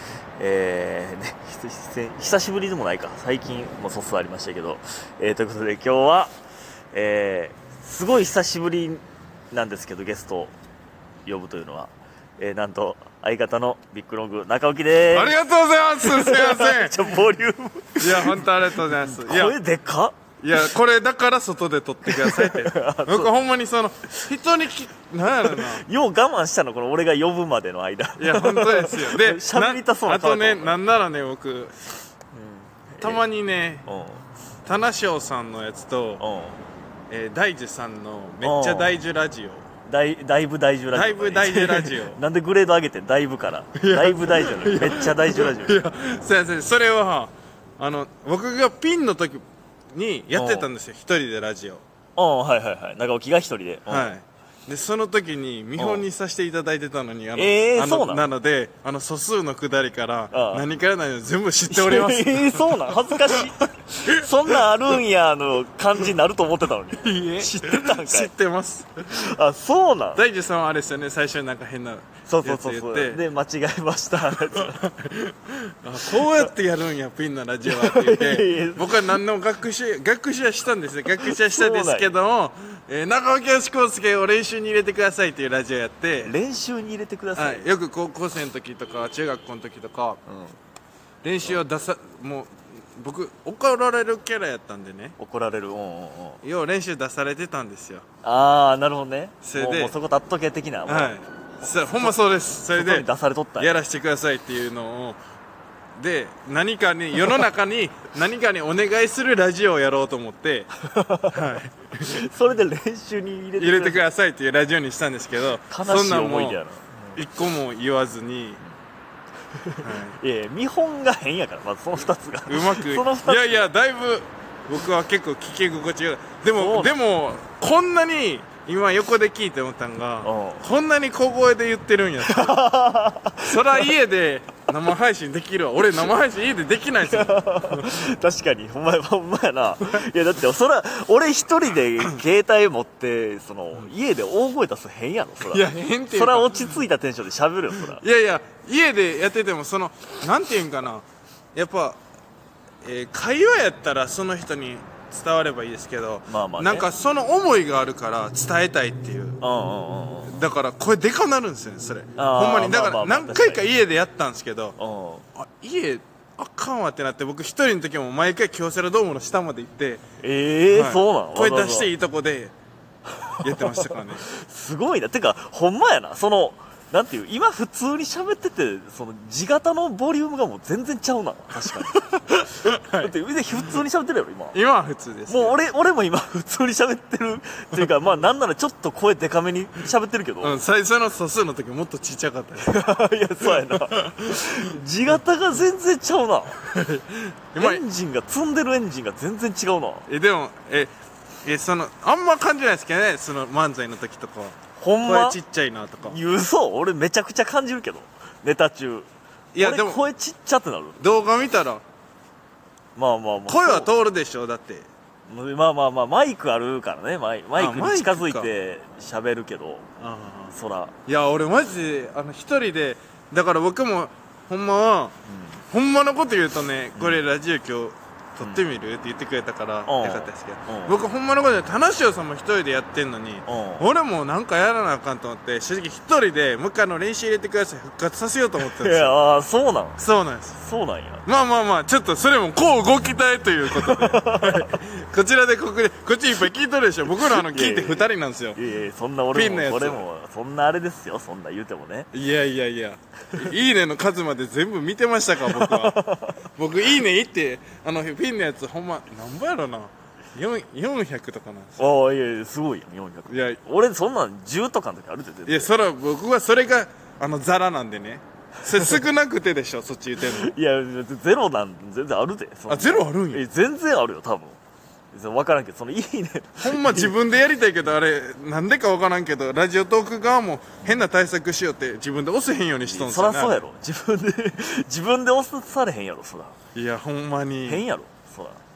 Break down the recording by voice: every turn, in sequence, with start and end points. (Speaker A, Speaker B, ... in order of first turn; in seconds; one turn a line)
Speaker A: 0.4-6.3
Speaker A: 6.9-10.5
Speaker A: 11.2-15.3
Speaker B: 15.1-17.1
Speaker A: 16.0-20.1
Speaker B: 18.0-19.6
Speaker B: 20.4-25.8
Speaker A: 22.1-23.3
Speaker A: 25.4-30.8
Speaker B: 28.2-31.8
Speaker A: 32.3-33.2
Speaker B: 33.0-33.9
Speaker A: 33.8-34.2
Speaker B: 34.6-36.2
Speaker A: 36.2-36.6
Speaker B: 37.1-39.7
Speaker A: 38.4-38.9
Speaker A: 39.9-45.8
Speaker B: 40.9-42.2
Speaker B: 43.8-51.8
Speaker A: 50.3-50.7
Speaker A: 52.1-54.1
Speaker B: 53.9-63.3
Speaker A: 55.8-56.0
Speaker A: 57.4-58.3
Speaker A: 60.3-60.6
Speaker A: 61.7-68.3
Speaker B: 64.0-64.6
Speaker B: 67.0-69.2
Speaker A: 69.1-70.2
Speaker B: 70.2-73.2
Speaker A: 72.3-74.8
Speaker B: 74.2-86.3
Speaker A: 76.0-76.5
Speaker A: 77.7-79.2
Speaker A: 81.2-82.1
Speaker A: 86.2-87.6
Speaker B: 87.3-90.2
Speaker A: 90.3-90.6
Speaker B: 91.2-95.2
Speaker A: 95.2-96.4
Speaker B: 96.4-98.0
Speaker A: 98.2-101.2
Speaker B: 99.4-100.0
Speaker B: 100.9-103.1
Speaker A: 101.9-102.2
Speaker A: 102.7-103.8
Speaker B: 103.6-105.2
Speaker B: 106.0-110.7
Speaker A: 110.8-111.4
Speaker B: 111.3-112.2
Speaker A: 112.1-114.0
Speaker B: 113.6-116.6
Speaker A: 115.7-117.2
Speaker B: 117.1-118.6
Speaker A: 119.5-123.7
Speaker B: 119.8-120.2
Speaker B: 122.5-132.6
Speaker A: 126.5-127.0
Speaker A: 130.2-130.6
Speaker A: 132.2-133.8
Speaker B: 133.4-137.9
Speaker A: 137.1-148.0
Speaker B: 145.5-146.8
Speaker B: 147.9-152.0
Speaker B: 152.8-159.4
Speaker A: 156.3-156.9
Speaker A: 159.4-160.4
Speaker B: 160.2-164.8
Speaker A: 162.2-163.6
Speaker A: 164.8-165.2
Speaker B: 165.3-170.0
Speaker A: 170.2-171.9
Speaker B: 170.7-172.5
Speaker A: 173.2-184.6
Speaker B: 173.4-174.2
Speaker B: 182.6-183.1
Speaker B: 184.5-185.6
Speaker A: 185.3-190.6
Speaker B: 190.4-194.8
Speaker A: 192.7-196.6
Speaker B: 196.6-197.8
Speaker A: 197.6-200.1
Speaker B: 200.1-200.9
Speaker B: 201.4-206.2
Speaker A: 204.8-205.4
Speaker A: 206.0-209.1
Speaker B: 209.5-210.0
Speaker A: 209.6-211.1
Speaker B: 211.0-211.8
Speaker A: 212.9-213.9
Speaker B: 213.5-214.9
Speaker A: 215.3-219.8
Speaker B: 217.6-218.5
Speaker B: 220.0-220.5
Speaker A: 220.5-220.9
Speaker B: 221.1-225.2
Speaker A: 225.3-225.6
Speaker B: 225.7-239.2
Speaker A: 226.9-227.2
Speaker A: 229.8-231.0
Speaker A: 233.4-233.9
Speaker A: 238.6-240.0
Speaker B: 240.0-240.6
Speaker A: 240.5-241.2
Speaker B: 241.2-248.6
Speaker A: 243.7-244.7
Speaker A: 247.1-252.1
Speaker B: 249.3-250.0
Speaker B: 252.1-256.0
Speaker A: 255.5-256.4
Speaker B: 256.6-261.9
Speaker A: 261.8-265.7
Speaker B: 263.3-263.6
Speaker B: 265.4-270.5
Speaker A: 270.3-274.6
Speaker B: 272.7-273.4
Speaker A: 275.1-277.1
Speaker B: 276.6-283.6
Speaker A: 282.8-286.6
Speaker B: 286.7-287.8
Speaker A: 287.6-288.6